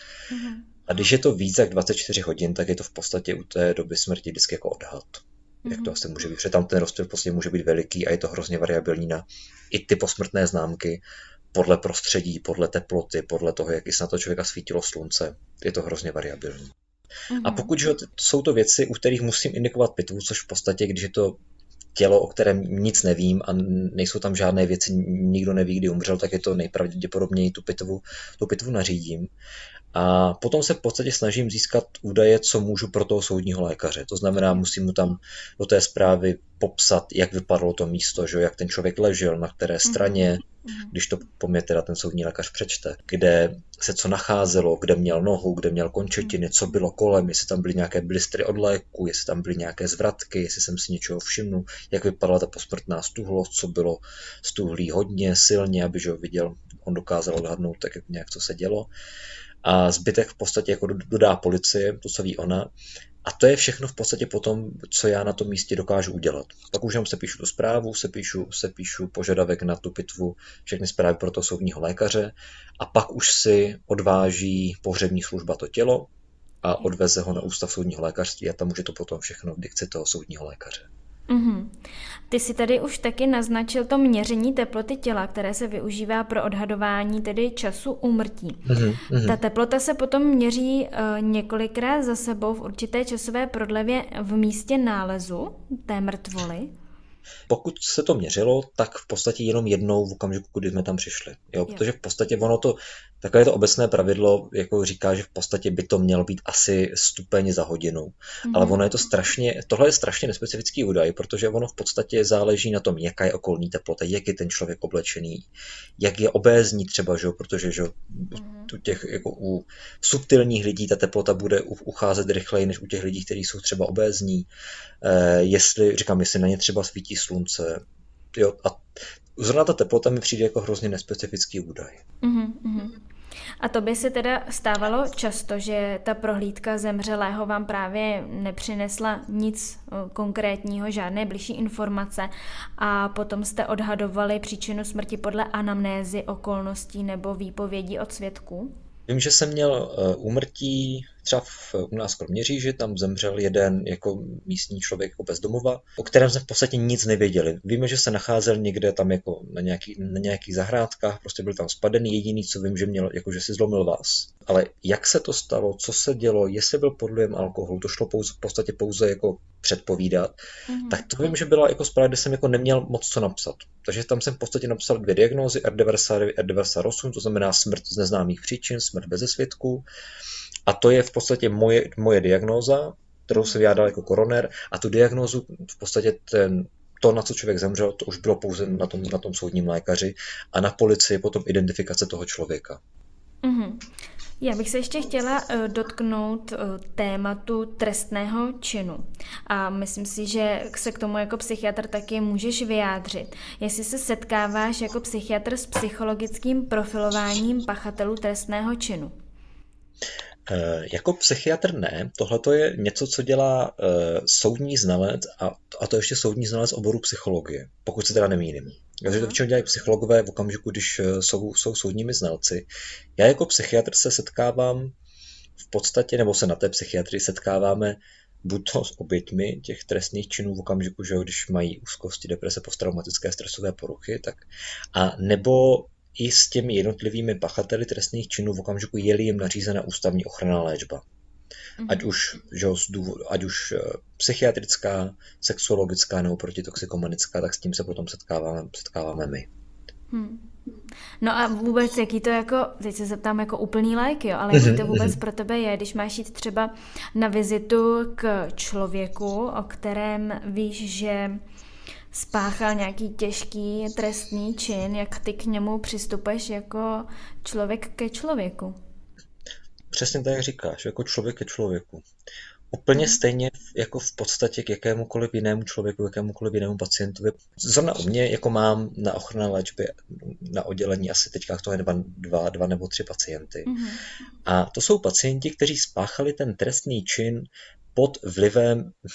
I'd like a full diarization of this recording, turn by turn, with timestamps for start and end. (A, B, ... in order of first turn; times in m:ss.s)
0:00.3-0:00.7 A
0:00.9-0:16.7 B
0:05.6-0:06.0 A
0:17.3-0:17.7 A
0:17.4-0:21.4 B
0:22.0-0:29.3 B
0:29.9-0:58.9 B
0:39.8-0:40.9 A
0:59.6-1:02.7 B
1:03.2-1:20.9 B
1:21.3-1:21.7 A
1:22.3-1:28.6 A
1:28.7-1:29.4 B
1:29.2-1:36.7 A
1:37.5-2:04.5 B
1:48.5-1:48.8 A
1:58.4-1:58.7 A
2:05.0-2:12.0 B
2:12.2-2:13.0 A
2:13.6-2:28.7 A
2:29.1-2:50.4 B
2:50.7-2:51.0 A
2:50.9-2:59.9 B
3:00.7-3:12.8 B
3:03.3-3:03.6 A
3:13.4-3:13.8 A
3:14.4-3:29.1 A
3:30.5-3:45.0 B
3:39.1-3:39.4 A
3:45.6-4:01.0 B
4:01.8-4:02.1 A
4:01.9-4:09.5 B
4:10.1-4:10.5 A
4:11.2-4:21.4 A
4:14.5-4:15.2 B
4:22.1-4:28.8 A
4:29.9-4:32.0 B
4:32.7-4:43.7 B
4:43.7-4:44.0 A
4:44.4-4:49.0 B